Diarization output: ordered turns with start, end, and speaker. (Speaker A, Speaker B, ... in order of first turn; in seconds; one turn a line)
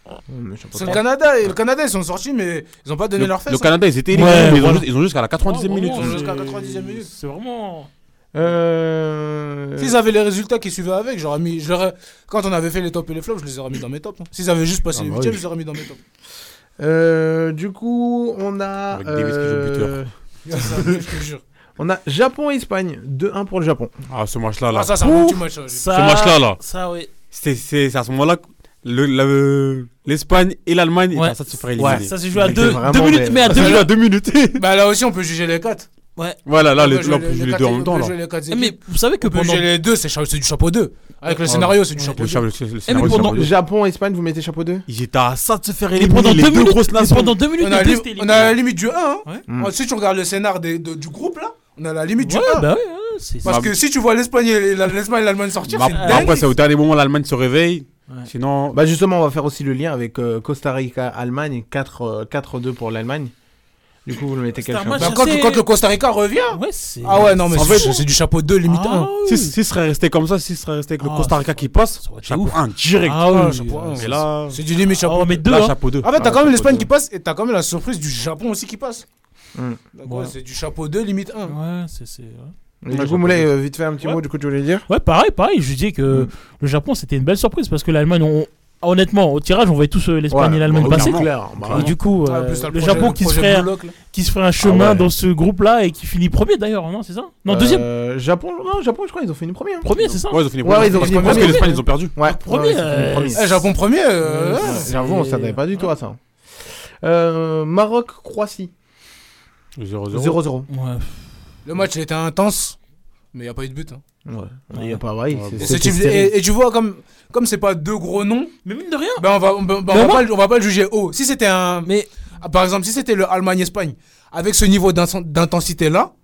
Speaker A: 0.3-1.0
Speaker B: 0.7-3.8
Speaker C: 3.2-6.2
Speaker D: 4.1-4.9
Speaker D: 5.5-7.9
Speaker B: 5.8-7.1
Speaker A: 8.3-9.9
Speaker B: 9.8-16.0
Speaker A: 14.9-15.4
Speaker A: 16.8-20.8
Speaker C: 18.9-20.0
Speaker B: 20.5-21.4
Speaker A: 21.8-23.9
Speaker C: 24.1-25.3
Speaker B: 24.7-25.9
Speaker D: 25.2-27.1
Speaker C: 25.9-26.6
Speaker C: 27.3-32.2
Speaker D: 31.1-33.9
Speaker A: 31.8-33.8
Speaker C: 33.5-34.6
Speaker B: 33.5-33.9
Speaker B: 34.6-35.9
Speaker C: 36.5-38.1
Speaker B: 36.6-42.5
Speaker D: 38.5-39.7
Speaker C: 41.4-43.5
Speaker D: 42.9-43.5
Speaker A: 43.0-44.9
Speaker C: 44.9-47.5
Speaker D: 45.9-48.6
Speaker B: 47.6-52.7
Speaker D: 52.2-53.6
Speaker C: 53.4-53.8
Speaker B: 53.5-56.4
Speaker C: 55.7-58.8
Speaker D: 55.8-56.5
Speaker A: 58.7-63.3
Speaker A: 64.0-65.2
Speaker D: 64.6-65.7
Speaker B: 65.0-69.1
Speaker D: 66.5-68.0
Speaker C: 67.5-68.0
Speaker D: 68.7-69.6
Speaker C: 69.2-73.3
Speaker D: 71.0-74.2
Speaker B: 73.2-75.5
Speaker C: 74.0-74.6
Speaker D: 75.0-75.8
Speaker C: 75.5-76.8
Speaker B: 76.0-79.0
Speaker A: 76.2-76.9
Speaker A: 79.5-79.8
Speaker B: 79.9-81.6
Speaker D: 80.0-80.3
Speaker D: 81.5-82.5
Speaker A: 82.8-84.9
Speaker C: 82.9-83.5
Speaker D: 84.9-97.9
Speaker A: 90.3-92.0
Speaker C: 90.8-91.8
Speaker B: 91.7-94.0
Speaker A: 94.6-95.1
Speaker A: 97.5-99.9
Speaker D: 99.8-103.7
Speaker C: 100.0-102.1
Speaker A: 100.6-103.7
Speaker B: 100.7-101.7
Speaker B: 103.3-105.4
Speaker D: 104.2-105.9
Speaker A: 104.4-108.7
Speaker C: 109.8-110.4
Speaker A: 110.1-110.7
Speaker D: 110.7-111.2
Speaker B: 111.7-112.8
Speaker B: 113.3-114.0
Speaker A: 114.3-116.3
Speaker C: 115.3-115.8
Speaker B: 115.6-118.6
Speaker D: 118.7-119.3
Speaker B: 119.2-126.1
Speaker D: 119.9-120.3